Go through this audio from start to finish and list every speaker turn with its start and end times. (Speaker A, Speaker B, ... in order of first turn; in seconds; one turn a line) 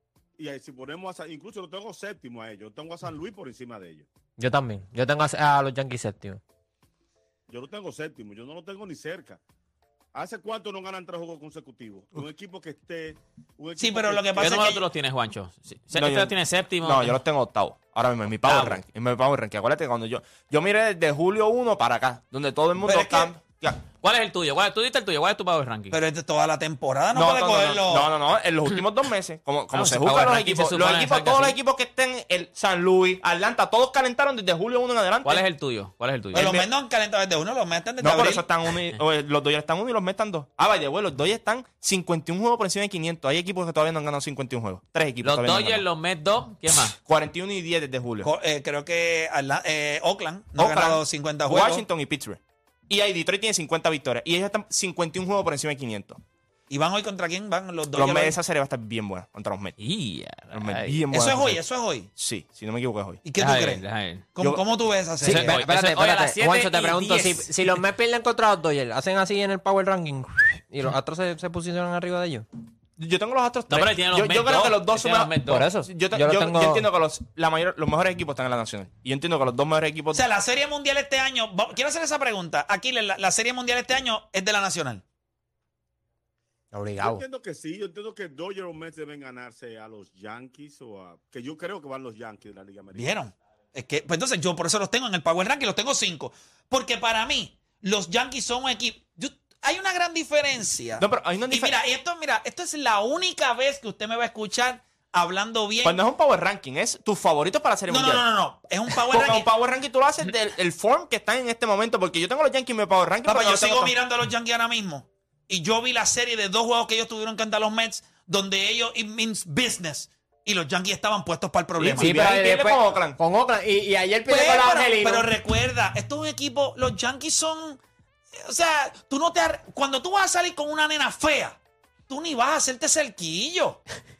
Speaker A: 0.4-4.0
Speaker B: 4.4-6.4
Speaker A: 7.5-9.4
Speaker A: 10.1-14.6
Speaker C: 13.8-14.8
Speaker D: 14.4-17.2
Speaker E: 15.9-23.8
Speaker D: 18.4-18.8
Speaker C: 22.8-23.3
Speaker D: 24.0-25.9
Speaker C: 25.9-28.1
Speaker E: 27.1-35.4
Speaker D: 29.7-31.6
Speaker D: 35.2-36.5
Speaker C: 36.3-38.4
Speaker E: 36.3-36.6
Speaker E: 38.0-45.8
Speaker D: 45.2-47.0
Speaker E: 47.0-48.3
Speaker C: 48.2-51.8
Speaker E: 50.6-56.2
Speaker C: 56.7-58.4
Speaker E: 57.9-59.8
Speaker D: 59.8-61.0
Speaker E: 60.5-61.6
Speaker C: 61.1-62.1
Speaker E: 62.1-63.2
Speaker C: 63.2-65.6
Speaker D: 63.4-64.2
Speaker B: 65.2-72.5
Speaker D: 65.2-67.5
Speaker E: 73.0-80.2
Speaker D: 73.7-75.6
Speaker B: 75.5-76.9
Speaker C: 80.1-85.0
Speaker B: 86.7-87.2
Speaker A: 87.0-93.2
Speaker C: 92.9-106.0
Speaker E: 101.0-101.7
Speaker E: 105.8-108.2
Speaker C: 107.9-109.5
Speaker E: 108.9-113.9
Speaker C: 113.2-122.3
Speaker E: 121.8-123.2
Speaker B: 121.9-125.3
Speaker C: 124.3-127.8
Speaker C: 128.3-131.6
Speaker C: 132.1-133.8